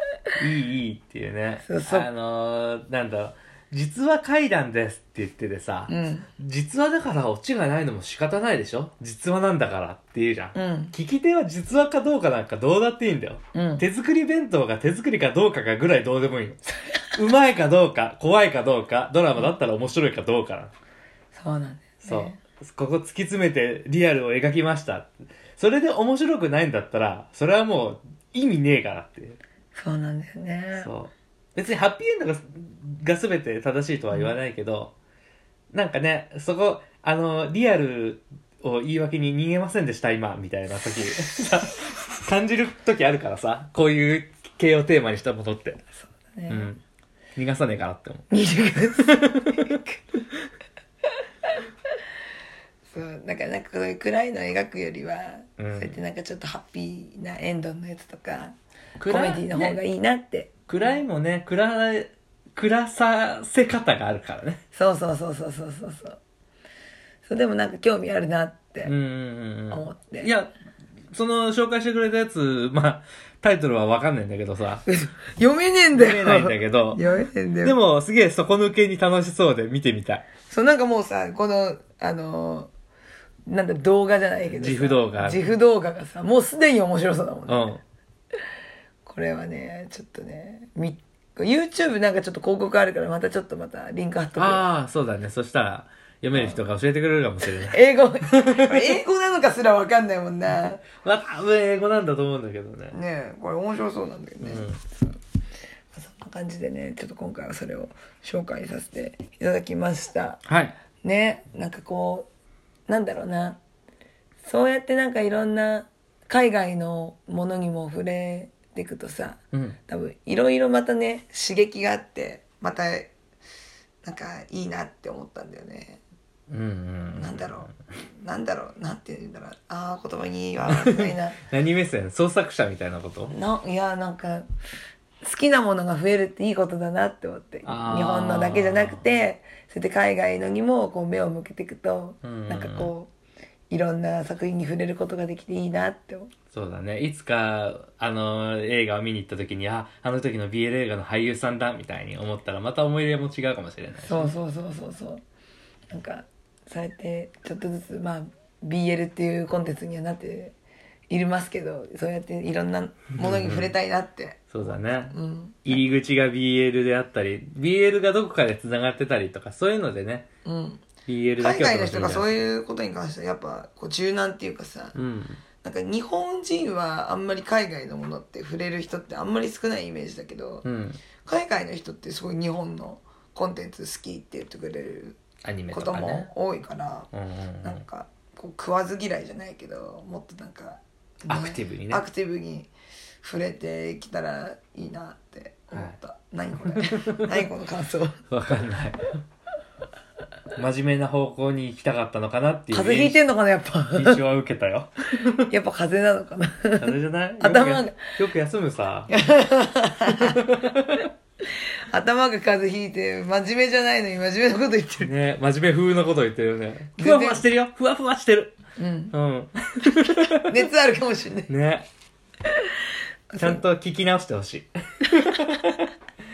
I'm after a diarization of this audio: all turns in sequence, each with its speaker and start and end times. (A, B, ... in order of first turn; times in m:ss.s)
0:00.4-0:16.6 A
0:01.6-0:02.1 B
0:05.9-0:06.3 B
0:10.5-0:10.9 B
0:13.5-0:13.8 B
0:17.2-0:20.7 A
0:21.3-0:22.4 B
0:22.0-0:29.4 A
0:29.7-0:30.9 B
0:30.8-0:34.9 A
0:35.7-0:45.8 A
0:46.0-0:46.7 B
0:46.5-0:46.8 A
0:47.4-0:48.3 A
0:48.3-0:50.0 B
0:49.0-0:49.7 A
0:52.9-0:58.5 B
0:55.6-0:55.9 A
0:59.0-0:59.8 A
0:59.0-1:00.5 B
1:00.7-1:04.6 A
1:04.7-1:06.2 B
1:07.2-1:08.9 B
1:08.8-1:10.5 A
1:09.7-1:10.3 B
1:11.1-1:14.8 A
1:14.8-1:17.8 B
1:15.9-1:17.0 A
1:17.6-1:20.2 A
1:20.5-1:22.7 B
1:23.5-1:27.7 B
1:24.5-1:25.4 A
1:27.5-1:27.8 A
1:29.0-1:34.6 B
1:34.4-1:38.8 A
1:36.3-1:36.6 B
1:37.5-1:40.8 B
1:41.0-1:43.0 A
1:42.9-1:45.2 B
1:44.4-1:44.8 A
1:45.9-1:50.4 B
1:50.4-1:50.8 A
1:51.0-1:52.3 B
1:52.9-1:53.6 B
1:54.4-2:03.1 B
1:59.5-1:59.8 A
2:04.0-2:06.0 B
2:06.5-2:07.5 A
2:07.2-2:11.4 B
2:10.7-2:13.3 A
2:13.3-2:14.4 B
2:15.2-2:23.1 B
2:17.6-2:19.0 A
2:22.2-2:22.9 A
2:23.7-2:26.3 B
2:26.5-2:34.4 A
2:34.0-2:35.2 B
2:35.9-2:40.5 B
2:41.1-2:44.5 B
2:43.2-2:43.7 A
2:44.5-2:50.2 A
2:45.1-2:45.8 B
2:50.4-2:50.8 B
2:51.1-2:52.5 A
2:51.4-2:55.0 B
2:54.9-2:55.4 A
2:55.6-3:00.6 B
3:00.6-3:01.0 A
3:01.2-3:05.2 B
3:05.4-3:06.3 A
3:05.7-3:07.1 B
3:07.1-3:07.8 A
3:07.6-3:12.7 B
3:11.3-3:12.0 A
3:13.2-3:18.2 B
3:16.8-3:17.3 A
3:18.3-3:19.2 A
3:20.6-3:23.2 A
3:22.7-3:24.2 B
3:23.9-3:25.5 A
3:25.5-3:28.1 B
3:26.8-3:29.1 A
3:29.1-3:30.4 B
3:30.1-3:31.1 A
3:31.9-3:35.1 B
3:35.0-3:38.6 A
3:37.0-3:37.4 B
3:38.8-3:39.1 B
3:39.1-3:40.7 A
3:40.2-3:41.5 B
3:41.5-3:41.8 A
3:43.3-3:43.6 B
3:43.4-3:45.9 A